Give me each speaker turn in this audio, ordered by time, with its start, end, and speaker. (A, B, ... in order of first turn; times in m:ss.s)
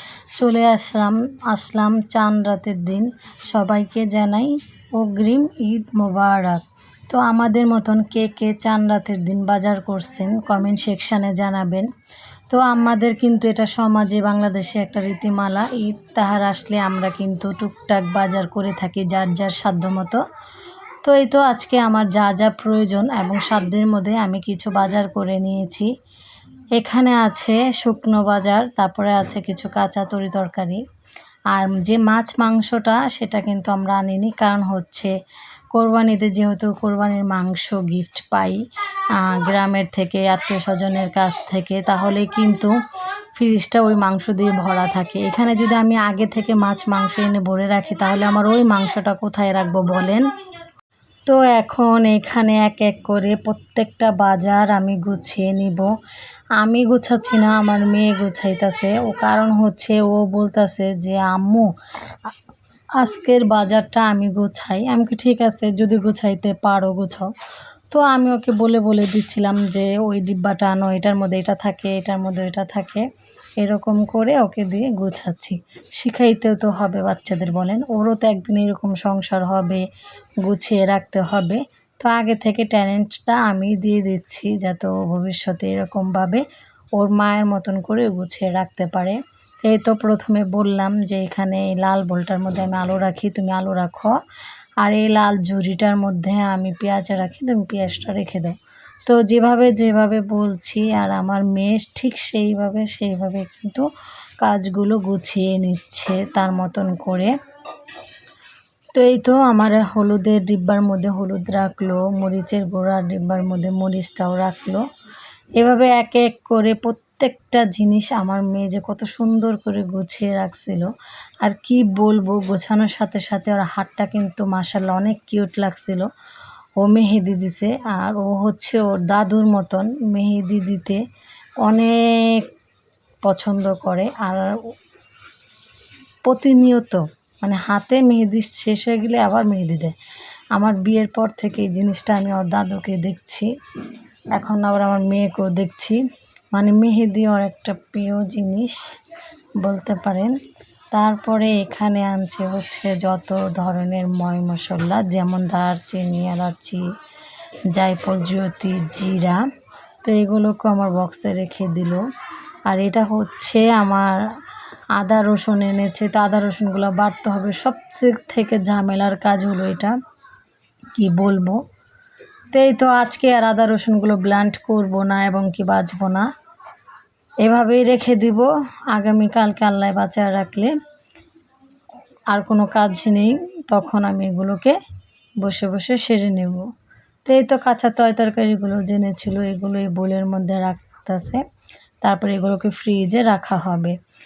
0:00.4-0:11.9 A
0:12.5-0:20.2 A
0:21.0-0:25.9 A
0:26.8-0:30.8 A
0:31.5-0:35.1 A
0:35.7-0:38.6 A
0:39.1-0:42.7 A
0:43.3-0:50.3 A
0:51.3-0:55.9 A
0:56.6-1:01.7 A
1:03.0-1:07.3 A
1:07.9-1:13.1 A
1:13.6-1:19.8 A
1:20.4-1:26.4 A
1:27.0-1:34.1 A
1:34.8-1:43.9 A
1:44.4-1:47.3 A
1:48.9-1:54.8 A
1:55.6-2:00.9 A
2:01.4-2:06.1 A
2:06.8-2:11.0 A
2:11.6-2:12.5 A
2:13.2-2:14.5 A
2:16.2-2:19.9 A
2:20.6-2:23.5 A
2:24.3-2:26.0 A
2:26.5-2:28.8 A
2:29.6-2:30.3 A
2:30.9-2:36.8 A
2:37.7-2:39.4 A
2:40.0-2:42.0 A
2:42.7-2:44.3 A
2:44.9-2:49.9 A
2:50.9-2:51.6 A
2:52.5-2:56.3 A
2:57.4-3:00.7 A
3:02.3-3:04.8 A
3:05.4-3:06.7 A
3:07.2-3:11.4 A
3:12.0-3:14.0 A